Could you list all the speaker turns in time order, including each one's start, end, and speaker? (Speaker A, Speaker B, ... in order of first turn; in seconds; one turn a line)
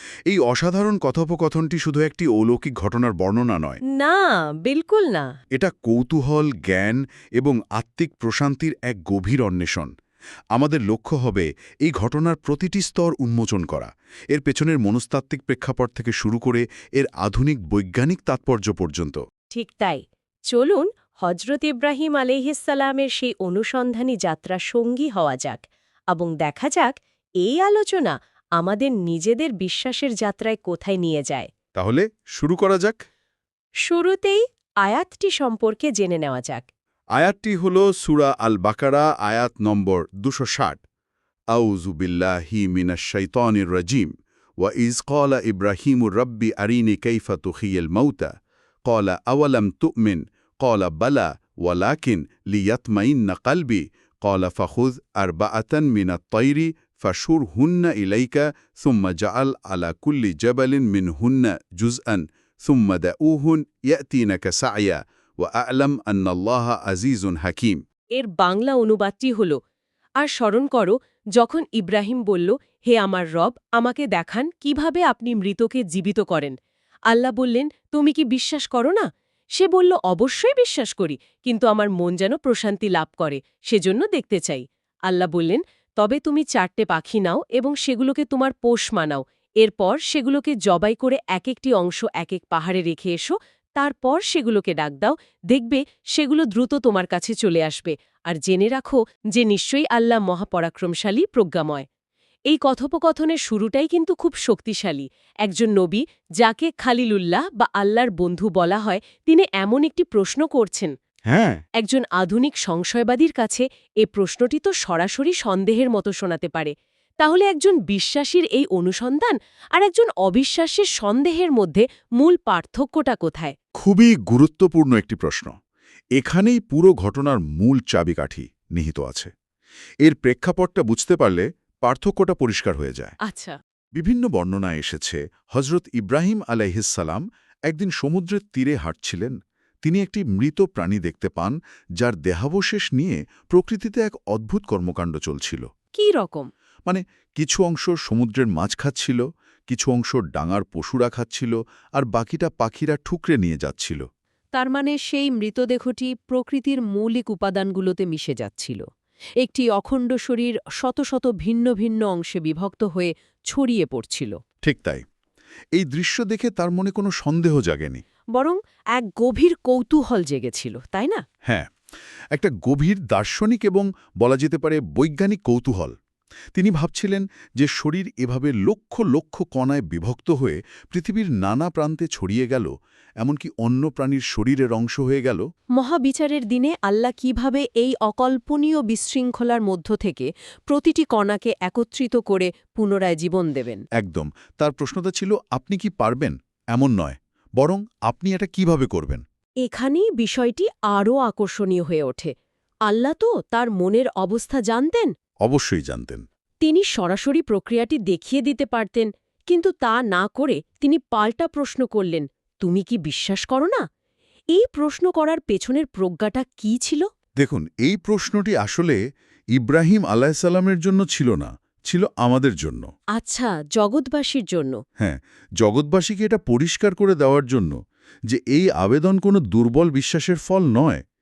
Speaker A: 0.3-3.8
Speaker B: 3.9-5.3
Speaker A: 5.5-9.9
Speaker A: 10.5-19.2
Speaker B: 19.5-31.5
Speaker A: 31.8-33.0
Speaker B: 33.8-36.7
Speaker A: 37.1-40.8
Speaker A: 41.5-48.3
Speaker A: 48.9-67.8
Speaker B: 68.2-69.6
Speaker B: 70.2-76.5
Speaker B: 77.1-79.0
Speaker B: 79.5-101.8
Speaker B: 102.5-110.9
Speaker A: 111.3-111.6
Speaker B: 111.8-123.5
Speaker A: 123.8-125.5
Speaker A: 126.2-129.3
Speaker A: 130.0-133.2
Speaker B: 133.2-133.6
Speaker A: 134.0-145.7
Speaker B: 146.0-146.5
Speaker A: 146.9-154.0
Speaker B: 154.5-158.8
Speaker B: 159.4-164.4
Speaker A: 164.6-165.0
Speaker A: 165.7-168.0
Speaker B: 168.3-171.2
Speaker A: 172.3-175.9
Speaker A: 176.5-182.7
Speaker A: 183.2-185.4
Speaker B: 185.8-193.8
Speaker A: 193.9-199.2
Speaker B: 199.6-202.3
Speaker B: 202.9-205.1
Speaker A: 205.4-206.2
Speaker B: 206.6-213.8
Speaker B: 214.5-217.1
Speaker A: 217.4-219.0
Speaker A: 219.5-222.9
Speaker B: 223.2-224.8
Speaker A: 225.0-227.8
Speaker A: 228.3-231.0